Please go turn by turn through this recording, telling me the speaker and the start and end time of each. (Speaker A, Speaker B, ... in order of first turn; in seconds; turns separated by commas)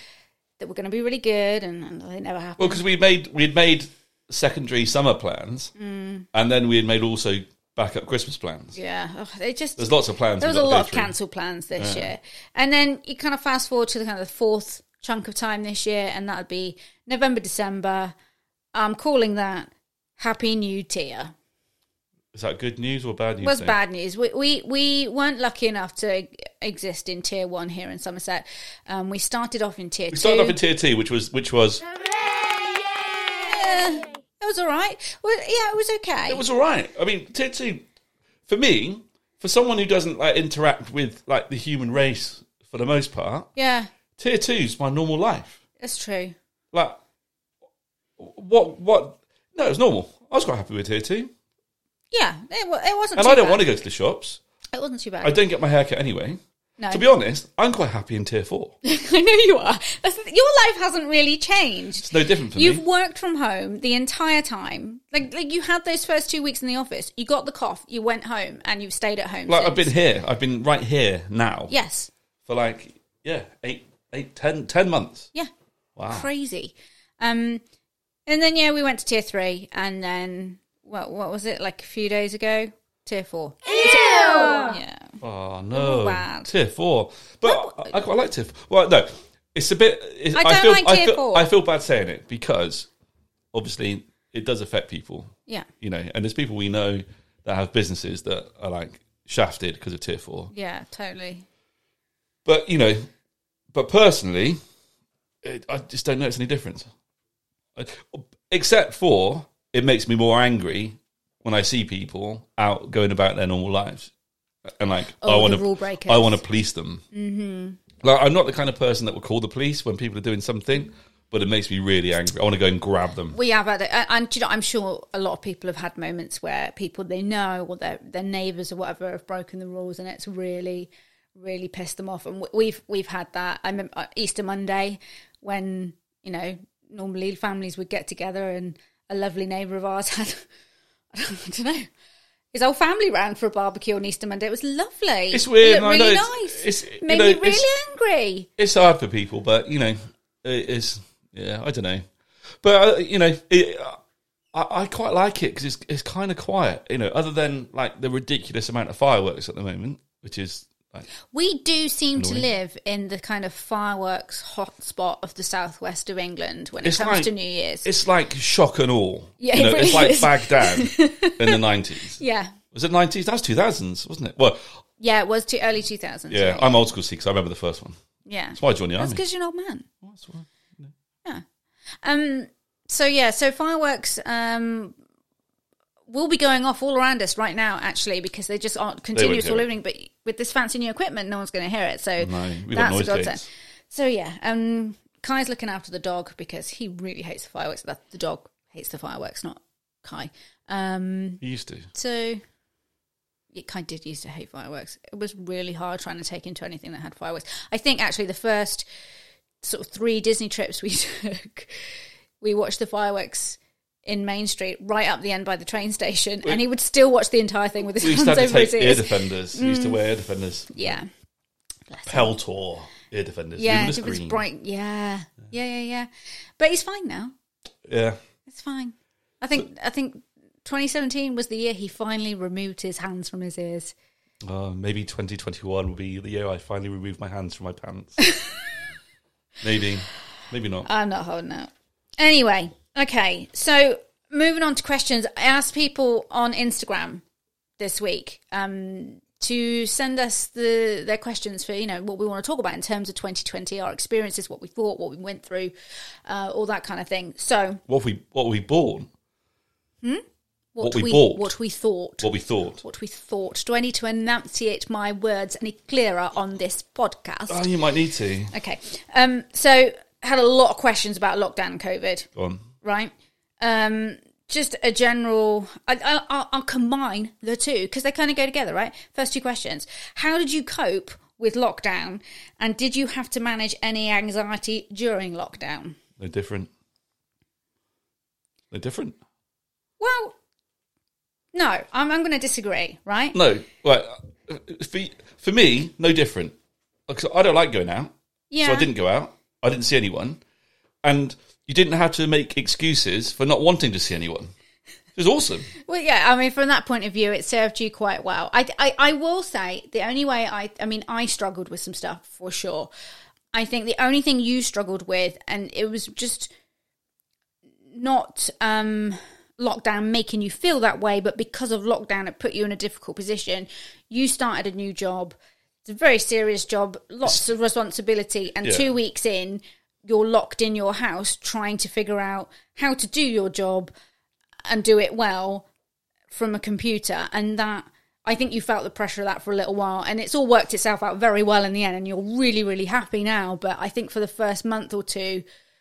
Speaker A: 0.6-2.8, Speaker B: 2.6-5.7, Speaker A: 5.8-6.2, Speaker B: 6.3-8.8, Speaker A: 8.7-18.1, Speaker B: 9.8-11.1, Speaker B: 11.8-12.1, Speaker A: 18.7-21.3, Speaker B: 22.3-23.8, Speaker A: 23.4-30.6, Speaker B: 30.1-31.8, Speaker A: 33.3-36.4, Speaker B: 36.3-37.8, Speaker B: 38.5-43.5, Speaker A: 43.5-43.9, Speaker B: 44.2-45.6, Speaker A: 45.8-46.3, Speaker B: 46.7-47.0, Speaker B: 48.2-51.3, Speaker A: 52.1-53.6, Speaker B: 53.1-54.4, Speaker A: 54.7-55.4, Speaker B: 55.2-56.4, Speaker A: 56.8-57.0, Speaker B: 56.9-58.7, Speaker A: 58.8-69.9, Speaker B: 62.0-62.8, Speaker B: 69.5-71.7, Speaker A: 71.7-72.1, Speaker B: 72.5-75.3, Speaker B: 76.0-76.3, Speaker A: 76.1-77.6, Speaker A: 78.3-85.1, Speaker B: 85.2-92.9, Speaker A: 85.7-86.5, Speaker A: 87.4-88.0, Speaker A: 90.3-91.5, Speaker B: 93.5-100.5, Speaker A: 100.5-101.4, Speaker B: 102.4-103.1, Speaker B: 103.7-104.6, Speaker B: 105.4-106.9, Speaker B: 107.8-114.1, Speaker B: 114.7-117.0, Speaker A: 115.2-116.4, Speaker A: 117.1-117.8, Speaker B: 118.0-123.4, Speaker A: 123.3-140.4, Speaker A: 141.1-141.9, Speaker A: 142.5-148.5, Speaker B: 145.3-147.7, Speaker B: 148.6-152.0, Speaker B: 152.6-154.0, Speaker B: 154.5-161.1, Speaker A: 161.3-167.9, Speaker B: 162.2-162.5, Speaker B: 166.8-167.3, Speaker B: 167.8-172.2, Speaker A: 169.4-171.6, Speaker A: 172.2-172.5, Speaker B: 172.7-174.7, Speaker A: 175.0-176.8, Speaker B: 176.3-178.0, Speaker A: 178.2-179.9, Speaker B: 178.6-179.2, Speaker B: 180.0-180.9, Speaker A: 182.0-184.9, Speaker A: 186.1-201.4, Speaker B: 189.1-189.6, Speaker B: 192.2-193.4, Speaker B: 201.4-201.9, Speaker A: 201.9-202.4, Speaker A: 203.5-208.8, Speaker A: 209.6-211.9, Speaker A: 212.4-220.0, Speaker B: 218.0-221.0, Speaker A: 220.7-221.1, Speaker A: 221.9-222.3, Speaker B: 222.1-224.4, Speaker A: 223.6-227.3, Speaker B: 227.8-228.2, Speaker A: 228.5-233.9, Speaker B: 234.4-238.2, Speaker A: 238.2-238.5, Speaker B: 239.6-240.9, Speaker A: 240.8-247.2, Speaker A: 247.8-255.7, Speaker A: 256.3-257.8, Speaker B: 257.9-259.1, Speaker A: 260.7-262.3, Speaker B: 260.8-261.5, Speaker B: 262.2-262.8, Speaker A: 262.8-267.7, Speaker B: 267.5-268.5, Speaker A: 268.5-272.3, Speaker B: 272.4-272.6, Speaker A: 272.8-286.0, Speaker B: 286.2-286.7, Speaker B: 288.7-289.2, Speaker A: 290.0-290.3, Speaker A: 291.5-293.4, Speaker B: 293.3-296.5, Speaker B: 297.1-300.4, Speaker A: 298.5-298.9, Speaker B: 301.0-304.5, Speaker B: 305.1-305.7, Speaker A: 305.9-312.9, Speaker A: 313.5-316.5, Speaker A: 317.9-333.9, Speaker A: 334.6-335.6, Speaker A: 336.3-345.4